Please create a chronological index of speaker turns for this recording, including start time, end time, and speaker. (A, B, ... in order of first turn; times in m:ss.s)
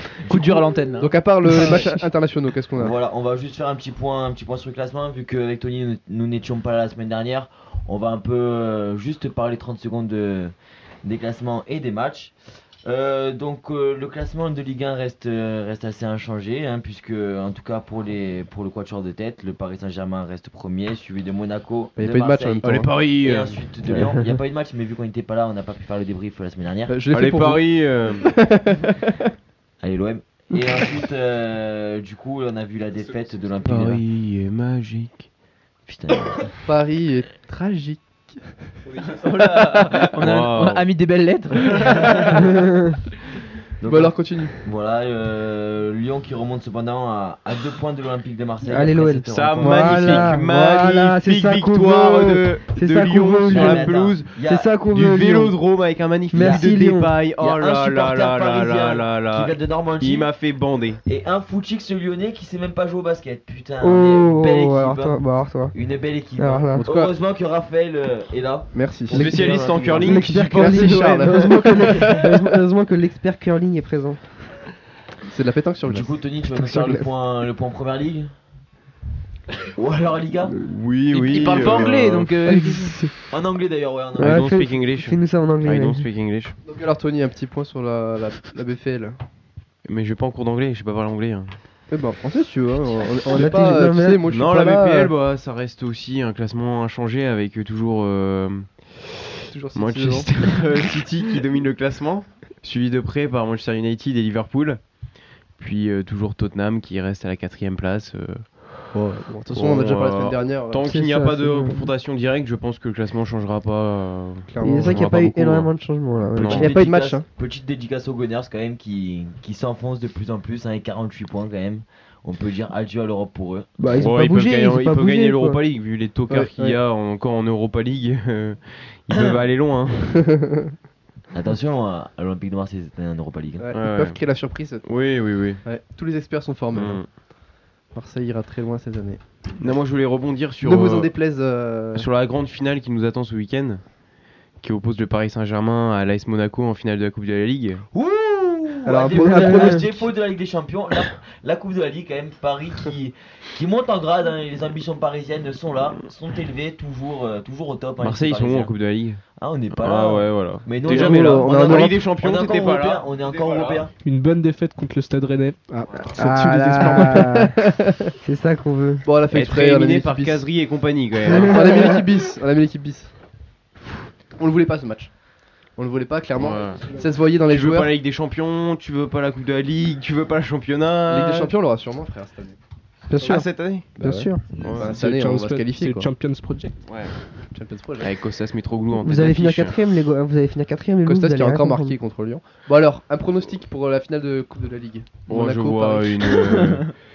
0:00.3-0:01.8 A
0:01.0-0:03.0 B
0:02.8-0:12.4 C
0:12.9-0:27.0 C
0:22.0-0:22.9 B
0:22.6-0:24.0 D
0:26.9-0:29.3 B
0:27.1-0:28.3 D
0:29.8-0:34.0 C
0:33.6-0:35.3 D
0:35.9-0:36.5 C
0:36.7-0:38.6 B
0:39.2-0:42.3 A
0:39.6-0:40.0 B
0:40.0-0:40.8 D
0:41.8-0:42.2 B
0:42.3-0:43.0 E
0:43.8-0:50.4 C
0:43.8-0:44.5 B
0:48.7-0:53.9 E
0:49.3-1:01.0 D
0:53.5-0:54.7 C
0:54.4-0:55.6 E
0:56.3-0:57.1 E
0:56.3-0:56.7 C
0:57.4-1:00.3 C
1:01.0-1:10.2 C
1:03.8-1:05.8 E
1:06.4-1:06.8 E
1:06.8-1:07.1 B
1:08.7-1:12.4 B
1:09.1-1:11.6 D
1:10.0-1:14.4 E
1:15.3-1:16.1 B
1:15.9-1:18.3 C
1:16.6-1:17.1 E
1:19.7-1:20.6 C
1:20.6-1:22.3 D
1:21.1-1:23.0 A
1:21.5-1:21.9 C
1:22.5-1:23.2 E
1:23.3-1:24.5 C
1:24.2-1:26.1 E
1:24.2-1:26.5 D
1:26.7-1:29.2 B
1:29.9-1:31.5 D
1:31.9-1:35.1 B
1:33.4-1:34.2 E
1:34.3-1:39.2 D
1:39.5-1:40.3 B
1:39.8-1:44.8 D
1:45.5-1:48.9 D
1:48.9-1:50.9 B
1:49.5-1:55.8 D
1:50.8-1:51.9 E
1:54.5-1:55.1 B
1:54.6-1:56.7 E
1:56.4-1:56.7 D
1:56.4-2:03.8 C
1:56.5-1:57.2 B
2:03.8-2:05.6 E
2:04.0-2:10.3 D
2:06.3-2:06.8 B
2:09.1-2:09.4 C
2:10.2-2:10.7 B
2:11.3-2:13.7 C
2:13.6-2:14.8 B
2:13.7-2:14.2 D
2:14.8-2:15.6 D
2:15.6-2:17.0 B
2:16.7-2:17.1 D
2:17.9-2:19.8 B
2:19.6-2:21.1 D
2:20.6-2:22.1 B
2:21.9-2:23.8 D
2:24.6-2:27.8 D
2:27.9-2:38.7 C
2:28.8-2:30.1 B
2:29.2-2:29.8 E
2:38.0-2:39.2 D
2:39.4-2:43.9 C
2:39.7-2:43.9 D
2:40.8-2:42.0 B
2:44.0-2:47.2 F
2:45.9-2:46.2 D
2:46.1-2:47.6 E
2:46.2-2:48.1 B
2:48.2-2:49.0 E
2:49.0-2:50.4 B
2:49.3-2:52.0 D
2:51.3-2:52.0 E
2:51.4-2:53.1 B
2:54.4-2:55.1 B
2:55.8-2:57.9 B
2:56.4-3:01.5 D
3:01.1-3:02.6 B
3:03.1-3:04.4 E
3:03.2-3:03.9 D
3:04.0-3:06.1 B
3:04.6-3:05.0 D
3:04.8-3:06.9 F
3:06.8-3:07.1 D
3:07.5-3:08.2 B
3:08.0-3:09.8 D
3:09.0-3:12.0 E
3:11.0-3:16.4 B
3:15.3-3:16.8 D
3:16.5-3:16.9 A